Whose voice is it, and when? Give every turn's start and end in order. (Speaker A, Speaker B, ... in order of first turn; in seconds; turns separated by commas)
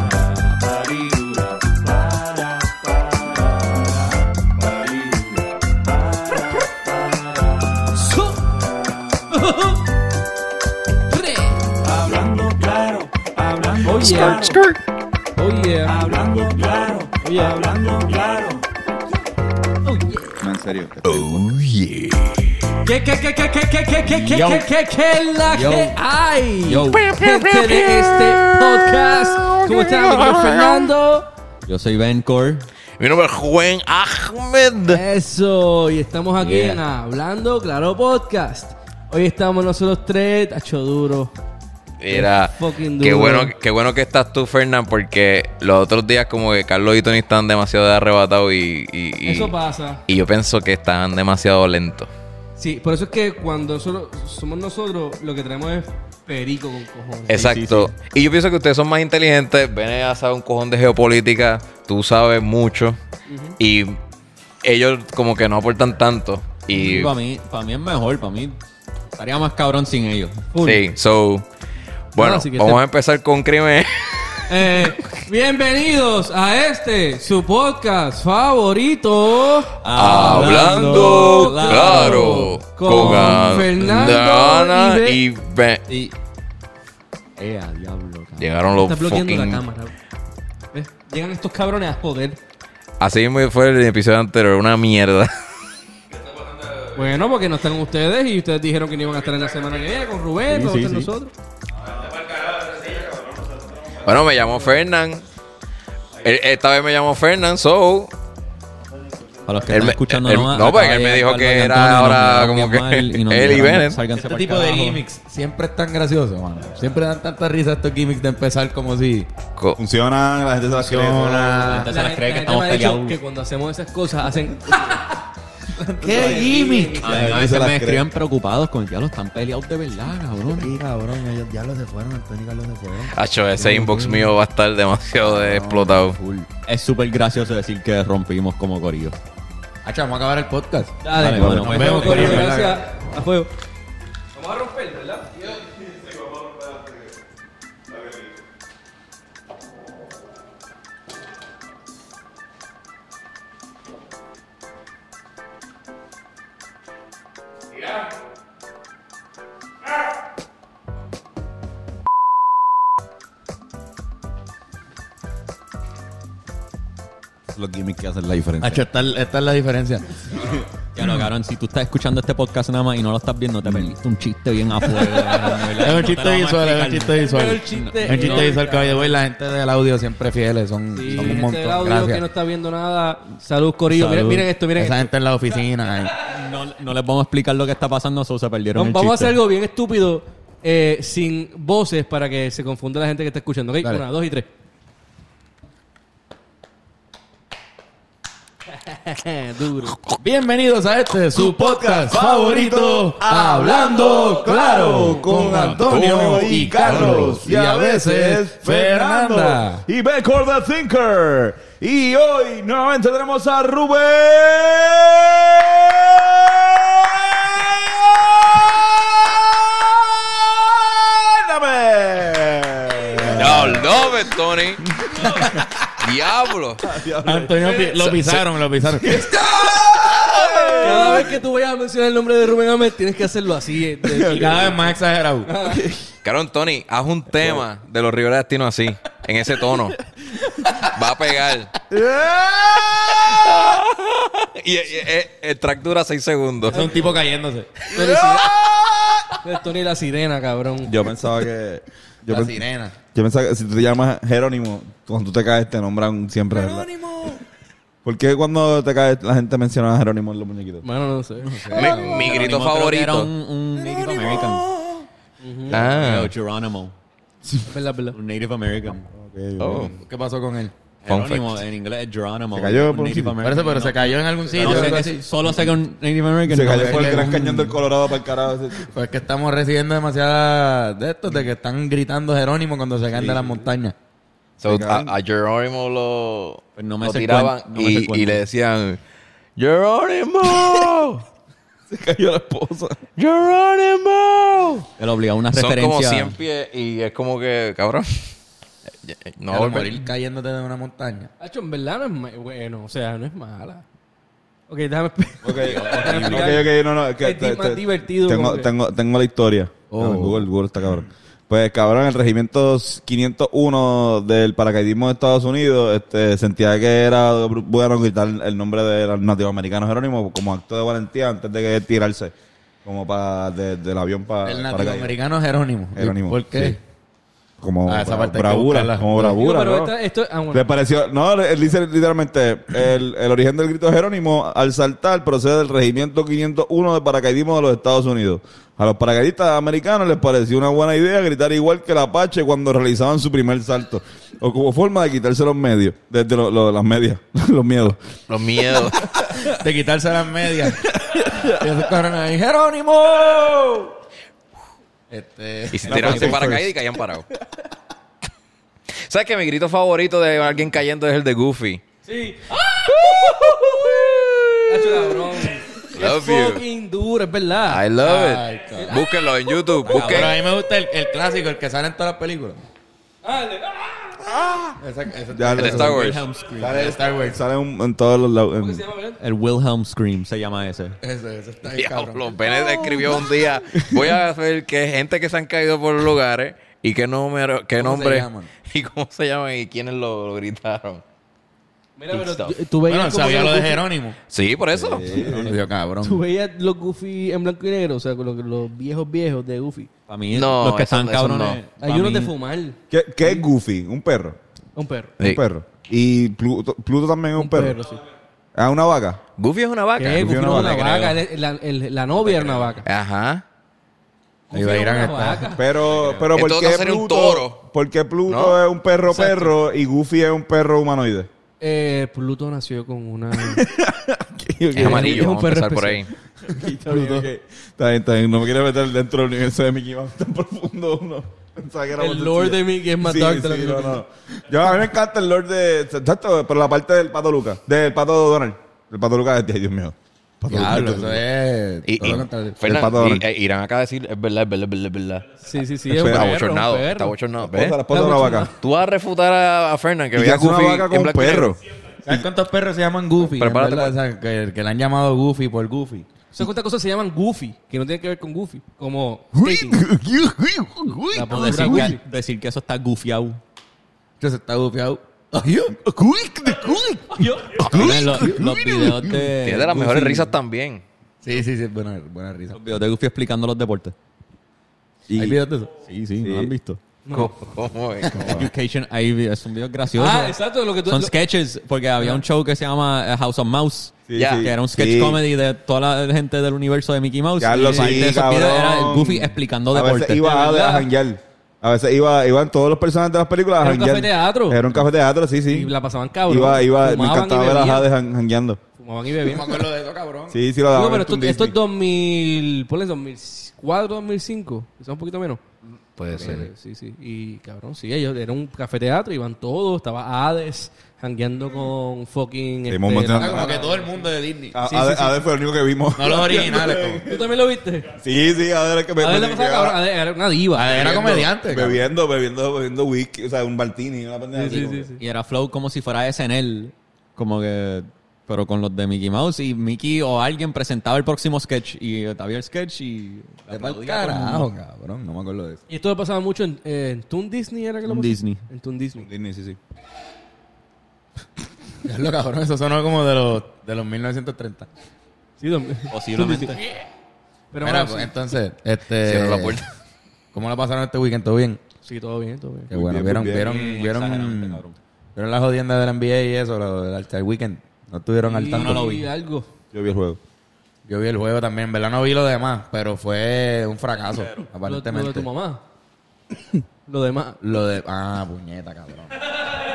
Speaker A: 0.6-2.6, Speaker A: 4.7-5.4, Speaker A: 6.0-7.4, Speaker B: 7.9-8.5, Speaker B: 9.3-9.9, Speaker B: 11.1-11.8, Speaker A: 12.0-13.0, Speaker A: 13.6-14.8, Speaker B: 13.7-14.6, Speaker B: 15.3-16.1, Speaker B: 17.2-18.1, Speaker B: 19.8-20.4, Speaker C: 20.4-21.3, Speaker A: 21.0-22.6, Speaker B: 22.8-31.3, Speaker D: 25.6-25.9, Speaker E: 26.7-26.9, Speaker A: 26.8-30.8, Speaker E: 31.7-32.7, Speaker A: 33.0-35.0, Speaker B: 34.9-41.3, Speaker E: 36.4-36.8, Speaker A: 42.0-49.5, Speaker B: 42.1-43.5, Speaker B: 49.2-50.0, Speaker A: 50.1-52.1, Speaker B: 52.6-57.5, Speaker A: 57.3-63.0, Speaker E: 57.3-57.9, Speaker B: 63.3-63.6, Speaker A: 63.6-64.0, Speaker A: 64.6-67.1, Speaker E: 66.7-68.6, Speaker E: 69.1-70.5, Speaker B: 70.5-70.8, Speaker A: 70.6-71.5, Speaker A: 72.1-75.1, Speaker B: 72.2-72.8, Speaker B: 74.5-85.2, Speaker E: 79.8-83.7, Speaker A: 79.9-85.8, Speaker E: 85.9-86.1, Speaker E: 87.4-88.5, Speaker A: 88.4-89.6, Speaker B: 88.8-90.0, Speaker B: 90.7-92.4, Speaker A: 93.0-95.5, Speaker A: 96.4-96.9, Speaker B: 96.9-101.3, Speaker E: 100.5-101.1, Speaker C: 102.3-104.0, Speaker A: 104.0-105.2, Speaker A: 106.2-108.1, Speaker E: 109.5-115.0, Speaker A: 109.7-114.0, Speaker D: 114.1-119.3, Speaker C: 119.8-121.8, Speaker D: 120.7-122.0, Speaker E: 121.6-123.2, Speaker B: 121.9-125.3, Speaker D: 125.8-127.7, Speaker C: 126.0-126.6, Speaker B: 126.0-127.3, Speaker E: 127.0-130.7, Speaker C: 127.1-128.0, Speaker D: 130.5-134.1, Speaker A: 133.1-136.2, Speaker C: 135.2-136.5, Speaker E: 136.6-139.2, Speaker D: 139.8-142.8, Speaker B: 141.0-143.5, Speaker E: 141.1-142.7, Speaker C: 141.2-141.8, Speaker B: 144.3-145.3, Speaker C: 145.4-147.1, Speaker C: 147.9-148.3, Speaker C: 167.5-168.8, Speaker D: 168.6-170.2, Speaker C: 170.3-171.2, Speaker E: 170.9-178.6, Speaker C: 173.6-173.9, Speaker D: 175.2-182.2, Speaker B: 177.2-179.2, Speaker B: 180.9-185.1, Speaker E: 183.9-184.5, Speaker D: 184.8-186.2, Speaker E: 186.2-189.4, Speaker B: 188.7-194.5, Speaker B: 198.8-200.0, Speaker D: 200.2-209.8, Speaker C: 201.3-224.3, Speaker A: 205.8-207.2, Speaker B: 206.8-207.3, Speaker D: 223.2-223.7, Speaker A: 223.3-224.8, Speaker C: 225.0-225.6, Speaker D: 225.2-225.7, Speaker A: 225.9-226.8, Speaker C: 226.8-227.7, Speaker D: 227.2-229.2, Speaker A: 227.8-228.4, Speaker C: 228.9-231.3, Speaker A: 229.8-230.6, Speaker B: 230.8-234.9, Speaker C: 234.0-234.7, Speaker D: 234.2-235.5, Speaker B: 235.4-235.9, Speaker A: 236.2-240.0, Speaker A: 240.8-241.7, Speaker C: 241.9-243.2, Speaker A: 243.0-247.0, Speaker D: 246.7-247.9, Speaker B: 246.7-247.2, Speaker B: 247.9-248.5, Speaker A: 248.1-249.2, Speaker C: 248.4-249.2, Speaker B: 249.4-251.0, Speaker C: 250.8-252.5, Speaker D: 252.3-253.0, Speaker C: 253.1-256.9, Speaker D: 256.5-257.4, Speaker C: 258.1-260.9, Speaker B: 260.8-261.6, Speaker D: 261.5-262.7, Speaker A: 261.7-263.3, Speaker E: 262.3-264.7, Speaker D: 264.0-264.4, Speaker B: 265.4-265.8, Speaker A: 265.7-266.3, Speaker E: 265.7-266.9, Speaker B: 267.7-268.2, Speaker E: 268.1-269.1, Speaker C: 269.1-270.0, Speaker A: 269.6-270.0, Speaker D: 270.0-270.7, Speaker E: 271.1-277.8, Speaker A: 271.1-271.6, Speaker C: 272.5-273.4, Speaker D: 273.4-275.3, Speaker C: 274.5-275.6, Speaker C: 276.5-278.9, Speaker D: 276.6-277.6, Speaker D: 278.8-283.9, Speaker C: 283.1-283.6, Speaker A: 284.6-289.0, Speaker C: 284.6-285.1, Speaker E: 286.8-288.4, Speaker A: 289.6-291.2, Speaker C: 291.9-293.0, Speaker A: 293.2-294.9, Speaker E: 295.0-296.4, Speaker A: 295.5-298.3, Speaker A: 299.1-300.0, Speaker D: 299.5-301.3, Speaker B: 301.4-303.8, Speaker B: 304.7-308.7, Speaker C: 305.4-322.3, Speaker A: 305.6-306.4, Speaker D: 306.2-306.6, Speaker D: 309.9-310.5, Speaker C: 322.9-325.2, Speaker D: 324.4-326.8, Speaker C: 326.0-326.8, Speaker C: 327.6-329.9, Speaker D: 327.9-329.4, Speaker B: 329.2-330.7, Speaker C: 330.5-349.5, Speaker A: 348.3-349.1, Speaker D: 349.4-353.9, Speaker C: 350.7-351.9, Speaker D: 355.1-356.6, Speaker A: 355.7-357.2, Speaker E: 355.9-356.6, Speaker A: 358.9-361.8, Speaker B: 362.1-363.5, Speaker A: 362.9-365.2, Speaker B: 364.6-367.8, Speaker A: 365.9-366.6, Speaker A: 367.7-370.4, Speaker D: 368.0-369.0, Speaker B: 368.8-369.1, Speaker E: 369.9-370.4, Speaker D: 369.9-372.6, Speaker B: 373.2-374.4, Speaker C: 374.4-374.7, Speaker D: 374.8-377.4, Speaker C: 375.3-376.2, Speaker A: 375.6-376.2, Speaker E: 375.9-377.0, Speaker C: 376.7-378.8, Speaker B: 378.6-379.2, Speaker E: 379.2-381.0, Speaker D: 381.0-382.4, Speaker A: 381.7-391.0, Speaker C: 383.8-384.2, Speaker D: 387.8-388.5, Speaker B: 392.0-393.9, Speaker A: 392.1-392.6, Speaker D: 392.9-394.2, Speaker A: 394.3-395.1, Speaker C: 394.8-395.6, Speaker E: 395.1-395.6, Speaker D: 395.2-396.2, Speaker B: 396.0-399.9, Speaker E: 400.1-402.3, Speaker A: 400.3-401.6, Speaker B: 401.8-403.5, Speaker C: 402.9-404.4, Speaker B: 404.8-405.1, Speaker C: 405.2-407.8, Speaker B: 407.4-408.0, Speaker C: 408.6-409.2, Speaker A: 409.4-410.3, Speaker B: 410.0-412.9, Speaker C: 410.1-411.2, Speaker A: 412.8-413.4, Speaker B: 414.5-415.7, Speaker D: 414.5-415.5, Speaker C: 415.6-421.3, Speaker E: 416.0-416.2, Speaker A: 416.3-417.6, Speaker A: 418.3-418.6, Speaker B: 419.1-419.6, Speaker B: 421.6-423.6, Speaker C: 423.4-425.2, Speaker B: 424.8-427.3, Speaker A: 424.8-426.1, Speaker C: 426.4-441.2, Speaker B: 432.0-434.0, Speaker D: 440.5-442.7, Speaker A: 441.9-445.4, Speaker C: 442.0-443.2, Speaker B: 445.4-447.1, Speaker C: 445.9-446.4, Speaker A: 445.9-447.8, Speaker C: 447.4-448.5, Speaker B: 447.9-448.5, Speaker A: 448.6-451.6, Speaker C: 450.1-452.2, Speaker D: 452.1-456.1, Speaker A: 453.2-454.0, Speaker B: 456.3-459.9, Speaker C: 459.3-461.9, Speaker B: 461.1-462.0, Speaker E: 461.2-463.4, Speaker D: 464.2-465.8, Speaker C: 465.8-469.3, Speaker B: 467.1-468.5, Speaker A: 467.6-468.1, Speaker E: 467.7-470.3, Speaker A: 469.4-470.8, Speaker D: 471.2-472.9, Speaker E: 472.5-473.9, Speaker C: 475.1-475.4, Speaker D: 475.1-475.7, Speaker E: 475.7-476.8, Speaker C: 476.2-476.5, Speaker B: 477.1-477.3, Speaker A: 477.1-478.5, Speaker D: 478.0-478.5, Speaker E: 478.3-490.4, Speaker B: 479.9-481.2, Speaker C: 484.1-485.2, Speaker A: 484.2-484.5, Speaker C: 487.4-495.7, Speaker B: 487.5-488.1, Speaker B: 490.2-490.9, Speaker B: 493.6-494.7, Speaker B: 495.5-497.9, Speaker C: 496.3-498.6, Speaker B: 498.8-499.7, Speaker D: 499.2-500.4, Speaker C: 500.3-501.6, Speaker B: 500.7-505.4, Speaker B: 506.1-513.9, Speaker A: 506.1-506.4, Speaker C: 512.7-513.7, Speaker D: 513.2-515.0, Speaker C: 514.5-517.3, Speaker B: 514.7-515.1, Speaker D: 516.0-517.0, Speaker B: 517.0-517.9, Speaker C: 517.9-519.8, Speaker B: 519.0-521.2, Speaker D: 520.5-521.8, Speaker C: 520.7-524.9, Speaker B: 524.3-525.0, Speaker E: 525.0-534.5, Speaker D: 533.5-535.6, Speaker B: 535.7-539.1, Speaker E: 537.8-538.4, Speaker C: 539.0-539.6, Speaker D: 541.8-544.7, Speaker B: 545.4-546.9, Speaker E: 545.9-546.6, Speaker B: 547.5-548.1, Speaker D: 547.6-549.6, Speaker A: 549.0-549.7, Speaker D: 550.3-551.6, Speaker B: 551.8-552.7, Speaker C: 552.7-553.6, Speaker D: 552.7-554.6, Speaker E: 553.2-554.8, Speaker D: 555.1-558.9, Speaker B: 558.2-559.5, Speaker E: 558.5-559.0, Speaker C: 559.7-560.2, Speaker D: 560.9-565.3, Speaker B: 564.6-565.6, Speaker B: 566.9-567.4, Speaker D: 567.4-569.3